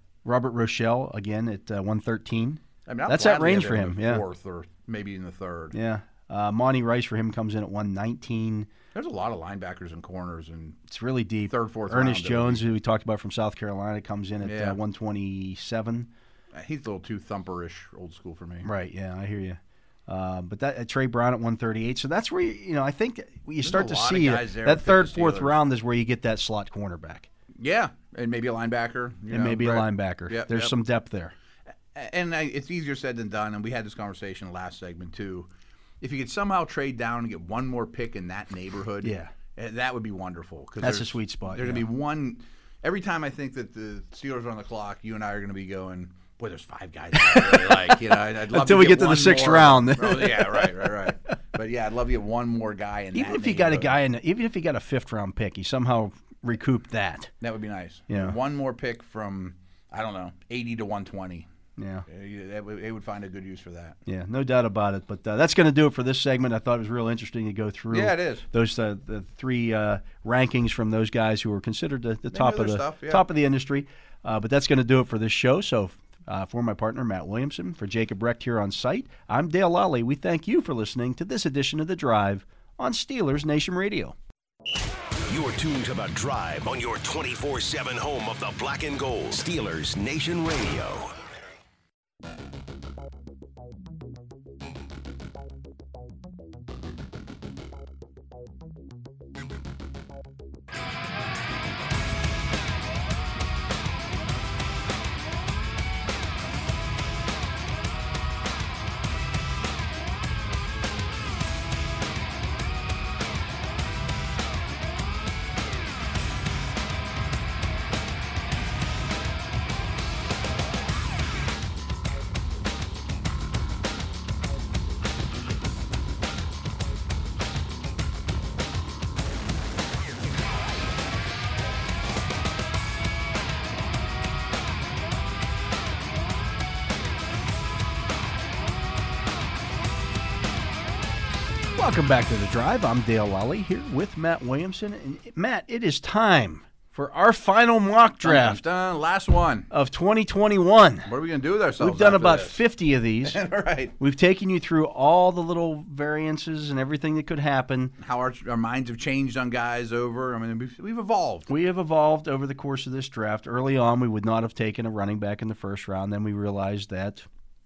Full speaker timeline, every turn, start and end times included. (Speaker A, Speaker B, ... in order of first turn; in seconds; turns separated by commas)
Speaker A: 0.2-4.2, Speaker B: 2.9-5.8, Speaker A: 5.7-8.7, Speaker B: 8.9-10.8, Speaker A: 10.9-16.1, Speaker B: 11.5-12.7, Speaker B: 14.4-14.8, Speaker B: 16.5-18.7, Speaker A: 18.6-27.3, Speaker B: 23.6-25.6, Speaker B: 27.5-30.8, Speaker A: 29.3-31.3, Speaker B: 31.9-35.5, Speaker B: 36.0-54.0, Speaker A: 39.0-39.3, Speaker A: 40.8-41.9, Speaker A: 47.1-51.3, Speaker A: 53.1-57.3, Speaker B: 57.4-61.5, Speaker A: 58.1-58.4, Speaker A: 61.8-62.0, Speaker B: 62.1-64.0, Speaker A: 64.0-84.1, Speaker B: 67.9-68.5, Speaker B: 72.3-73.2, Speaker C: 85.3-91.1, Speaker A: 141.8-148.6, Speaker B: 148.2-149.7, Speaker A: 149.7-151.1, Speaker B: 151.0-152.6, Speaker A: 151.8-153.4, Speaker B: 153.2-153.9, Speaker A: 154.0-157.9, Speaker B: 158.0-161.5, Speaker A: 161.5-167.2